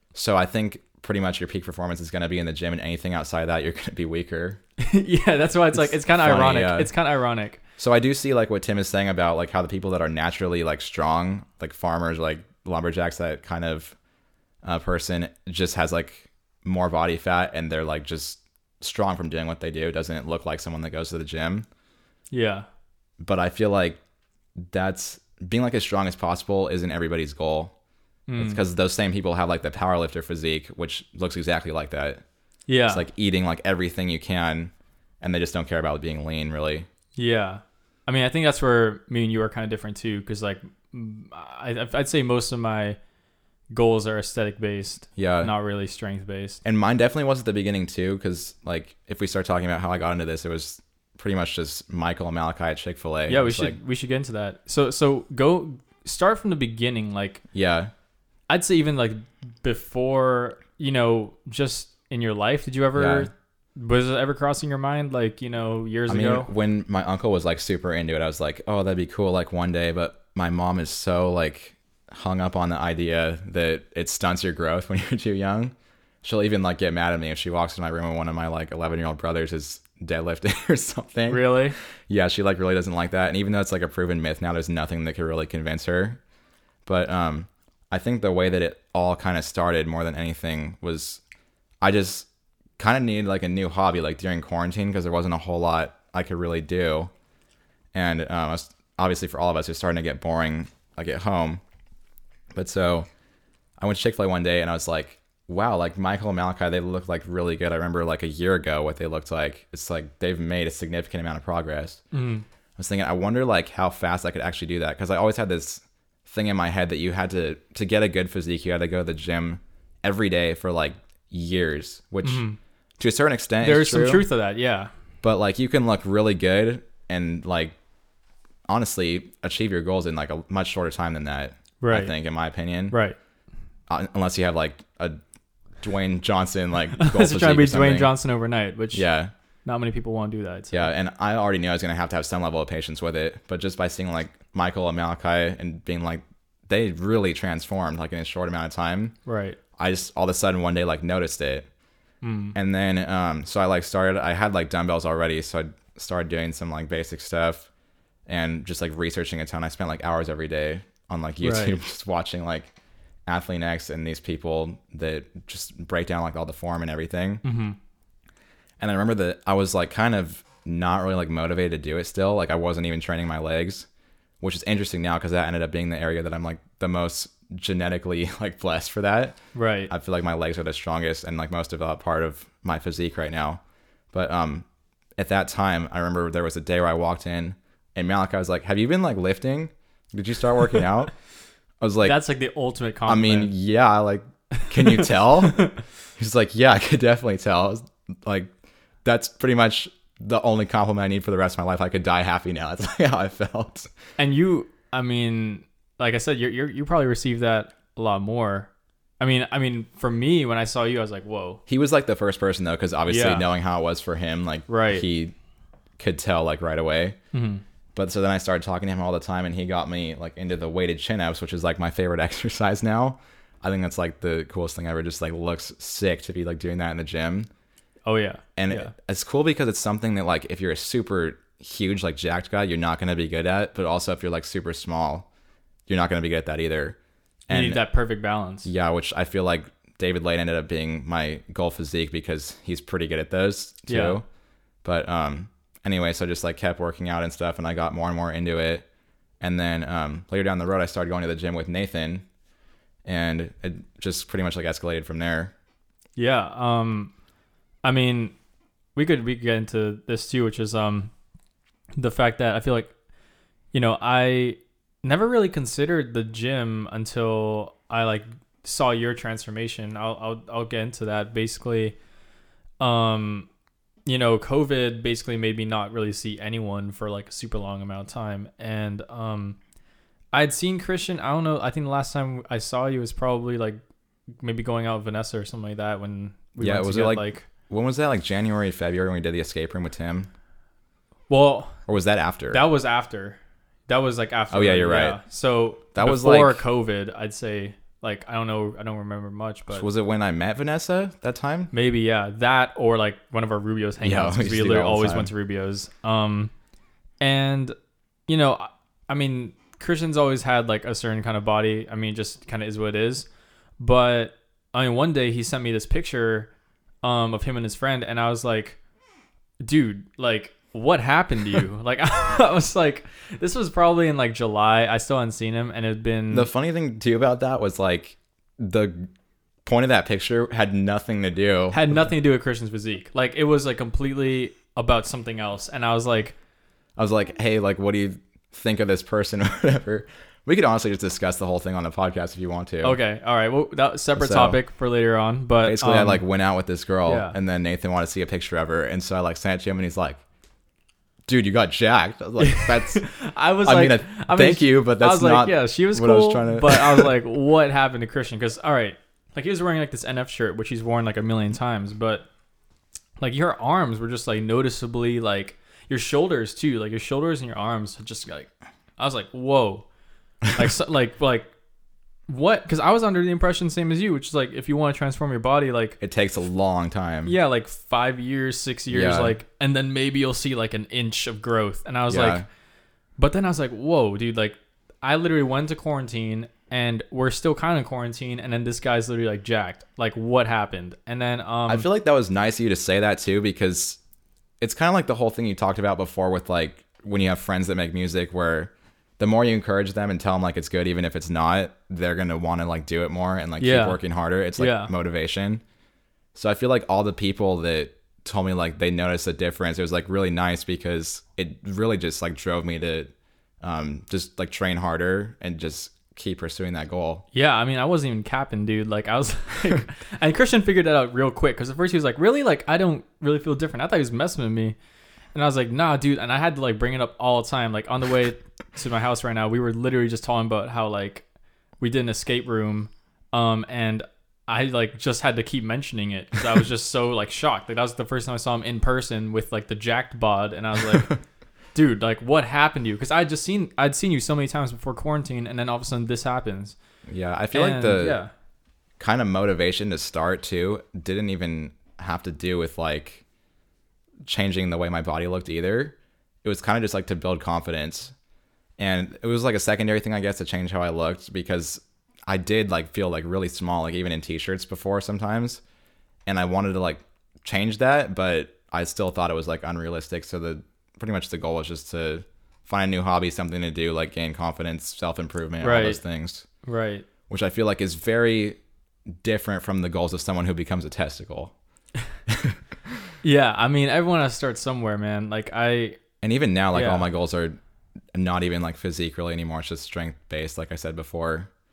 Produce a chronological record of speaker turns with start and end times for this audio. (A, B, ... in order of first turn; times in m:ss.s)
0:00.1-0:04.6 A
0:04.8-0:07.6 B
0:05.7-0:06.9 A
0:07.8-0:14.0 A
0:14.6-0:21.6 A
0:22.3-0:22.6 B
0:23.2-0:24.0 A
0:24.6-0:27.7 A
0:28.3-0:28.6 B
0:28.4-0:32.2 A
0:32.7-0:33.0 B
0:32.9-0:36.9 A
0:37.2-0:43.0 B
0:43.7-0:46.6 B
0:45.2-0:45.5 A
0:46.6-0:53.7 A
0:53.3-0:57.4 B
0:57.5-0:57.9 A
0:58.5-1:06.5 B
1:03.0-1:03.3 A
1:06.1-1:21.6 A
1:21.3-1:21.8 B
1:22.1-1:26.2 A
1:26.8-1:31.2 A
1:31.8-1:37.1 A
1:37.9-1:41.6 A
1:42.5-1:43.1 A
1:43.8-1:52.0 A
1:52.1-1:52.4 B
1:52.8-2:02.4 A
2:02.2-2:02.6 B
2:03.0-2:04.2 A
2:03.6-2:04.9 B
2:05.2-2:07.7 A
2:08.7-2:13.0 A
2:11.8-2:12.1 B
2:12.9-2:13.2 B
2:13.9-2:15.2 A
2:15.8-2:18.1 A
2:17.0-2:19.1 B
2:18.9-2:19.3 A
2:19.6-2:20.9 B
2:20.7-2:29.1 A
2:29.2-2:29.6 B
2:29.8-2:31.7 A
2:32.2-2:32.6 B
2:32.5-2:37.7 A
2:38.3-2:42.7 A
2:41.4-2:41.8 B
2:43.3-2:47.4 A
2:47.4-2:47.8 B
2:48.8-2:53.9 A
2:54.4-2:59.4 A
2:59.5-2:59.9 B
2:59.9-3:03.6 A
3:04.1-3:04.6 A
3:05.2-3:11.1 A
3:11.8-3:12.2 A
3:12.0-3:13.5 B
3:13.1-3:18.5 A
3:14.6-3:15.8 B
3:19.0-3:23.9 A
3:24.2-3:31.6 B
3:31.7-3:35.3 A
3:33.1-3:33.4 B
3:34.7-3:35.0 B
3:36.0-3:37.2 A
3:37.3-3:37.6 B
3:37.9-3:47.5 A
3:48.0-3:48.9 B
3:48.6-3:55.3 A
3:55.9-3:57.0 A
3:57.5-3:57.8 A
3:57.5-3:58.7 B
3:58.6-4:04.2 A
4:03.9-4:04.2 B
4:04.8-4:08.8 A
4:09.4-4:12.2 A
4:13.0-4:15.5 A
4:16.2-4:17.1 B
4:17.8-4:18.3 B
4:19.0-4:21.1 B
4:22.0-4:22.9 B
4:23.7-4:32.0 B
4:32.8-4:33.5 B
4:34.0-4:39.6 B
4:40.3-4:43.8 B
4:44.4-4:47.5 B
4:46.6-4:50.3 A
4:51.3-4:51.8 B
4:51.9-4:52.6 A
4:52.5-4:59.8 B
4:54.5-4:55.2 A
4:55.9-4:56.6 A
4:59.7-5:01.7 A
5:01.7-5:06.5 B
5:04.0-5:05.3 A
5:07.2-5:07.7 B
5:08.3-5:13.3 B
5:13.8-5:16.5 B
5:17.0-5:18.8 B
5:19.6-5:26.5 B
5:26.3-5:29.1 A
5:29.6-5:31.8 A
5:31.7-5:36.3 B
5:37.0-5:43.0 A
5:42.8-5:46.2 B
5:44.2-5:44.6 A
5:45.6-5:50.2 A
5:47.0-5:47.4 B
5:51.3-5:53.0 A
5:52.4-6:02.3 B
5:53.6-5:57.1 A
6:03.2-6:09.9 B
6:10.5-6:11.5 B
6:12.3-6:16.0 B
6:16.0-6:17.3 A
6:17.2-6:22.4 B
6:18.9-6:19.3 A
6:22.1-6:22.4 A
6:23.2-6:31.9 B
6:31.7-6:34.0 A
6:34.6-6:45.6 A
6:43.6-6:44.0 B
6:44.6-6:44.9 B
6:46.3-6:53.1 A
6:53.6-6:57.2 A
6:57.3-7:04.8 B
7:05.3-7:11.2 B
7:11.8-7:21.2 B
7:21.7-7:26.8 B
7:27.1-7:28.2 A
7:27.5-7:28.3 B
7:29.0-7:33.2 A
7:34.2-7:38.1 A
7:38.8-7:45.6 A
7:46.2-7:56.4 A
7:55.6-7:56.0 B
7:56.6-7:57.1 B
7:57.3-8:01.5 A
8:02.3-8:02.6 A
8:03.2-8:06.0 B
8:06.2-8:07.6 A
8:06.7-8:07.1 B
8:08.1-8:11.5 A